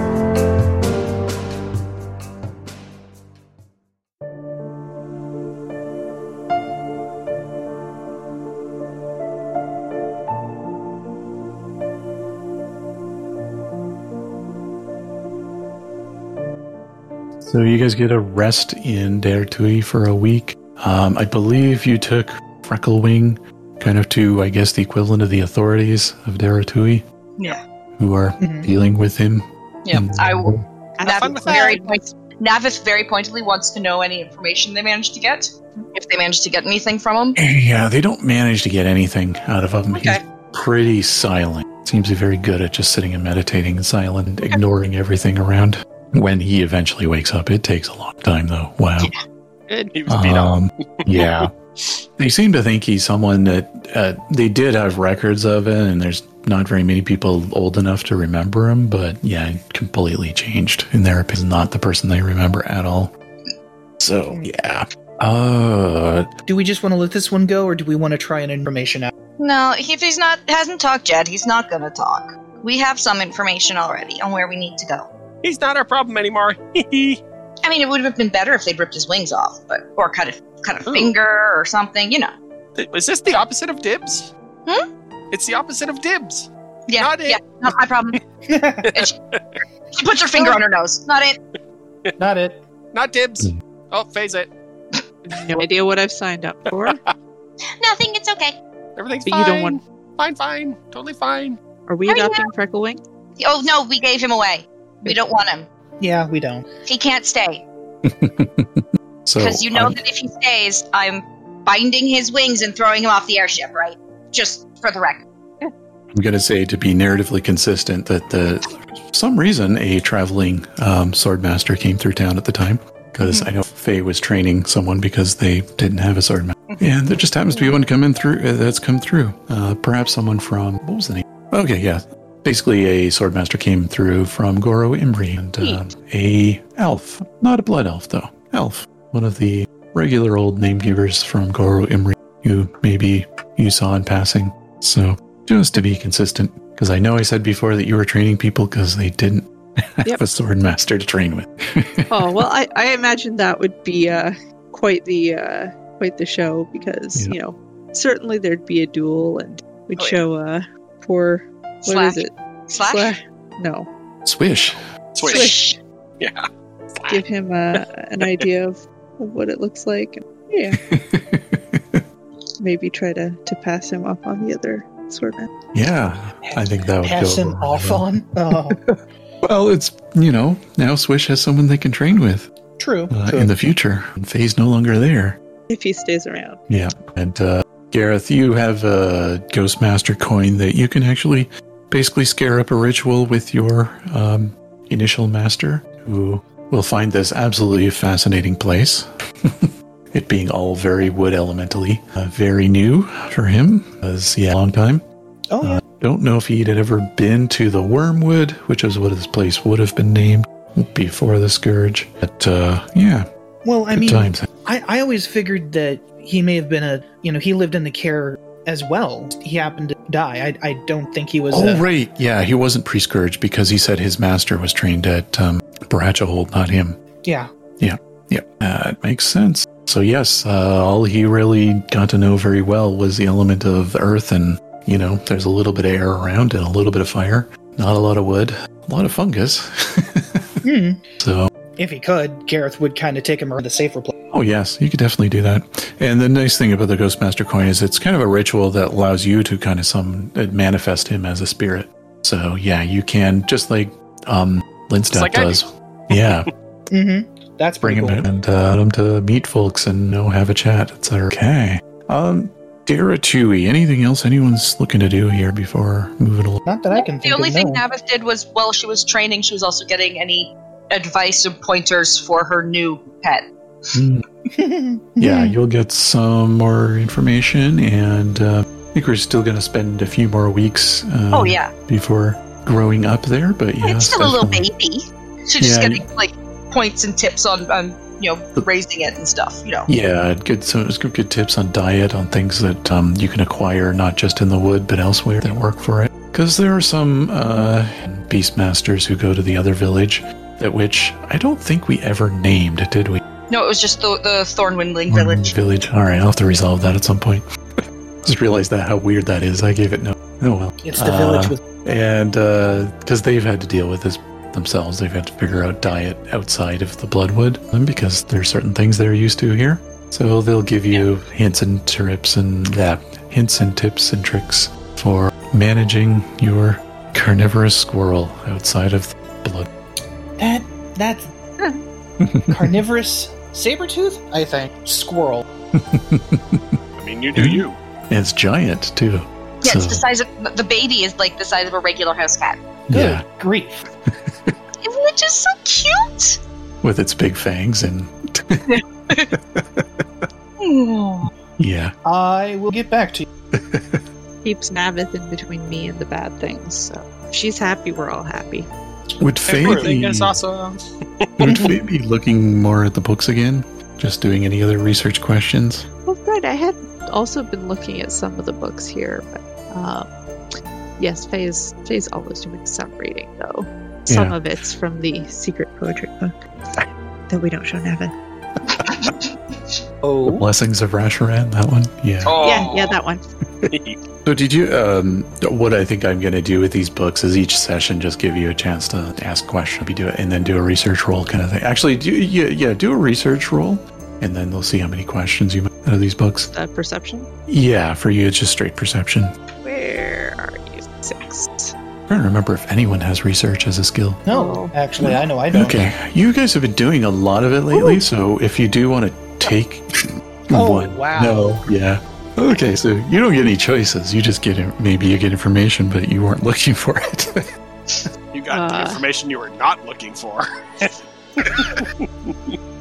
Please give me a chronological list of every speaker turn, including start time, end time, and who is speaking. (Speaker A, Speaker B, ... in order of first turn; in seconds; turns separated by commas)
Speaker A: 17.4-27.0, Speaker A: 28.0-30.6, Speaker B: 28.4-28.7, Speaker C: 29.8-37.4, Speaker D: 31.0-32.2, Speaker E: 31.0-31.8, Speaker A: 37.4-49.1, Speaker C: 39.9-40.2, Speaker E: 49.9-51.5, Speaker A: 50.1-51.5, Speaker A: 52.2-63.1, Speaker A: 64.0-66.3, Speaker B: 66.5-69.1, Speaker C: 69.4-75.1, Speaker E: 75.4-77.2, Speaker C: 77.6-82.3, Speaker E: 80.8-81.2, Speaker E: 82.8-84.3, Speaker E: 85.3-87.8, Speaker C: 86.9-88.2, Speaker B: 88.5-88.9, Speaker E: 88.8-89.6, Speaker C: 90.0-91.4, Speaker B: 92.2-92.6, Speaker E: 92.9-94.5, Speaker D: 95.3-97.0, Speaker E: 96.7-97.1, Speaker C: 97.8-98.6, Speaker E: 99.0-101.6, Speaker D: 99.3-99.8, Speaker D: 101.9-103.0, Speaker C: 102.1-102.5, Speaker C: 103.4-105.7, Speaker B: 106.0-106.7, Speaker C: 106.9-107.6, Speaker A: 108.0-110.0, Speaker C: 109.4-115.2, Speaker A: 116.1-152.4, Speaker C: 123.2-123.5, Speaker D: 152.1-163.9, Speaker C: 160.0-160.2, Speaker C: 161.9-163.1, Speaker A: 164.2-164.8, Speaker E: 165.2-165.5, Speaker D: 165.2-165.8, Speaker C: 165.3-165.8, Speaker E: 166.2-166.5, Speaker E: 167.0-167.2, Speaker D: 167.1-170.8, Speaker E: 167.8-168.5, Speaker A: 170.7-172.0, Speaker D: 172.6-175.5, Speaker A: 175.7-178.1, Speaker B: 176.4-178.8, Speaker A: 178.8-182.5, Speaker B: 182.8-183.7, Speaker A: 183.1-185.4, Speaker D: 185.7-186.6, Speaker A: 186.7-205.0, Speaker B: 205.5-205.8, Speaker A: 205.6-213.3, Speaker B: 213.7-221.8, Speaker A: 213.9-214.4, Speaker A: 221.5-227.0, Speaker B: 227.2-227.5, Speaker A: 227.8-240.5, Speaker B: 240.6-241.0, Speaker A: 241.2-241.5, Speaker B: 241.8-244.1, Speaker A: 244.3-256.5, Speaker E: 255.1-256.5, Speaker B: 256.9-258.2, Speaker A: 257.8-266.6, Speaker B: 266.7-267.8, Speaker C: 266.9-273.5, Speaker A: 273.9-274.2, Speaker B: 274.6-275.6, Speaker A: 275.2-284.6, Speaker C: 281.3-281.7, Speaker C: 283.8-289.9, Speaker A: 285.6-286.1, Speaker A: 289.9-303.2, Speaker C: 303.5-305.6, Speaker A: 305.1-307.4, Speaker A: 308.2-329.7, Speaker B: 310.8-311.6, Speaker B: 330.4-331.3, Speaker A: 332.2-332.7, Speaker B: 332.5-335.4, Speaker A: 335.7-336.8, Speaker E: 337.0-337.8, Speaker A: 337.4-340.0, Speaker C: 339.6-342.6, Speaker A: 342.9-343.2, Speaker B: 342.9-343.8, Speaker A: 344.1-344.6, Speaker C: 344.8-346.4, Speaker A: 346.8-349.9, Speaker C: 348.7-349.3, Speaker C: 350.6-351.3, Speaker A: 351.6-351.9, Speaker B: 352.1-353.3, Speaker A: 353.5-354.0, Speaker D: 354.4-358.7, Speaker A: 359.2-360.4, Speaker E: 359.5-361.6, Speaker A: 361.4-365.9, Speaker B: 361.4-361.7, Speaker D: 366.1-370.1, Speaker D: 371.0-376.4, Speaker A: 374.1-374.4, Speaker D: 377.3-378.1, Speaker C: 378.9-379.8, Speaker B: 380.0-380.4, Speaker A: 380.3-382.4, Speaker E: 382.2-383.0, Speaker D: 382.4-383.2, Speaker E: 383.7-384.0, Speaker A: 384.2-396.5, Speaker D: 396.5-397.3, Speaker A: 397.5-399.3, Speaker D: 399.6-401.7, Speaker A: 402.1-404.2, Speaker B: 404.3-405.9, Speaker D: 404.3-404.7, Speaker A: 405.0-417.5, Speaker D: 407.8-408.0, Speaker B: 410.5-411.5, Speaker E: 418.3-422.6, Speaker D: 418.5-419.0